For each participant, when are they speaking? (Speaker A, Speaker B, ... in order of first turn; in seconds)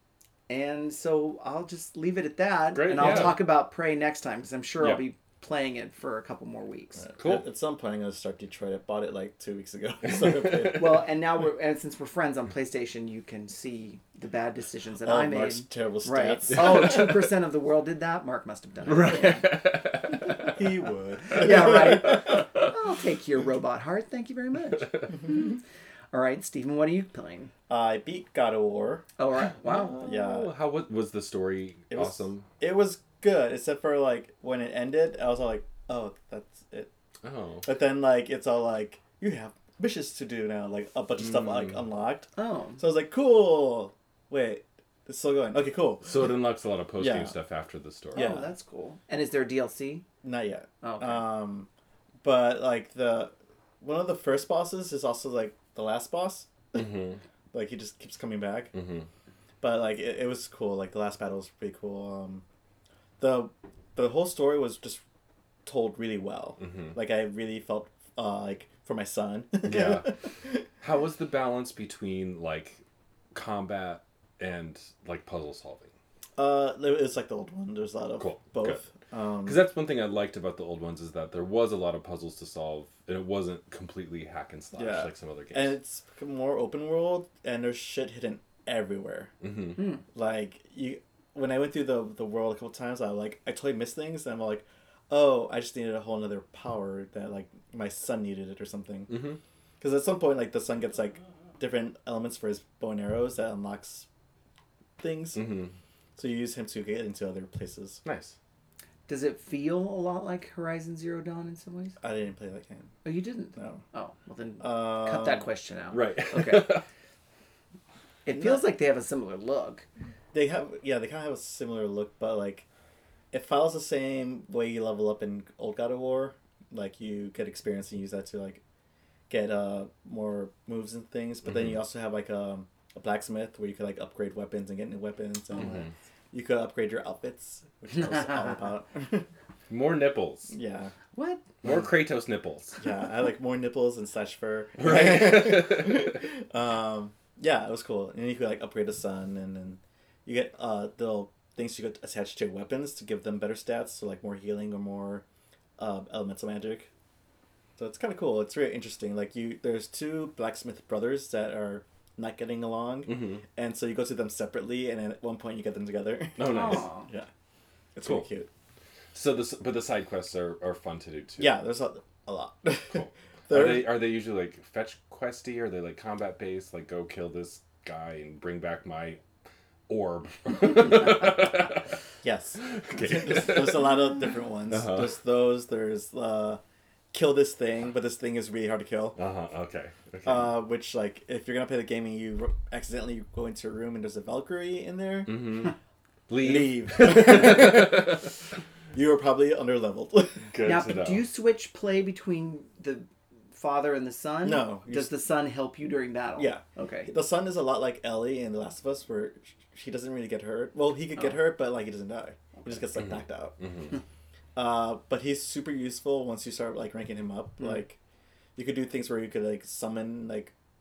Speaker A: 0.5-7.0, 10.7-19.4, 21.3-25.6, 26.1-27.5, 29.2-30.0, 42.4-42.8, 48.1-50.0, 50.8-51.3, 109.1-112.0, 113.0-116.8, 118.2-119.8, 141.1-141.4, 166.5-167.1, 200.6-207.1
Speaker B: 2.7-3.5, 7.2-7.4, 10.1-10.7, 16.7-17.0, 18.9-20.6, 21.2-22.5, 29.9-32.5, 37.2-37.7, 41.2-41.8, 46.0-48.3, 56.7-57.2, 58.7-59.1, 66.6-67.0, 69.6-70.1, 70.8-72.8, 73.3-75.9, 78.2-78.8, 79.4-85.7, 89.4-89.8, 99.1-99.4, 105.3-105.7, 108.0-108.3, 115.9-116.8, 131.4-131.8, 135.6-135.9, 139.7-140.5, 141.6-142.8, 144.8-146.2, 163.1-163.4, 166.4-166.9, 169.1-171.6, 172.9-179.2, 179.9-181.8, 182.6-184.1, 184.7-185.1, 189.2-190.6, 195.2-195.7, 196.3-198.3, 200.5-201.2, 213.0-213.9
Speaker C: 7.0-11.0, 15.0-16.9, 20.4-22.2, 27.7-29.0, 29.7-30.5, 31.9-36.9, 37.6-46.3, 47.0-47.3, 48.1-48.5, 50.2-51.7, 52.2-56.9, 57.5-58.7, 59.6-62.4, 63.2-65.0, 65.7-70.6, 76.4-79.6, 84.7-89.3, 90.1-99.2, 99.8-104.1, 105.0-105.5, 106.2-108.0, 112.0-112.9, 113.5-113.8, 114.6-115.5, 118.3-118.6, 120.3-122.7, 123.3-128.6, 129.3-139.3, 140.5-140.9, 142.8-155.2, 155.8-156.9, 157.8-167.3, 167.9-168.5, 171.4-174.0, 182.2-186.6, 187.1-189.2, 190.2-195.7, 196.4-198.2, 198.9-200.5, 204.4-205.1, 206.4-213.6, 214.5-218.0, 218.6-220.5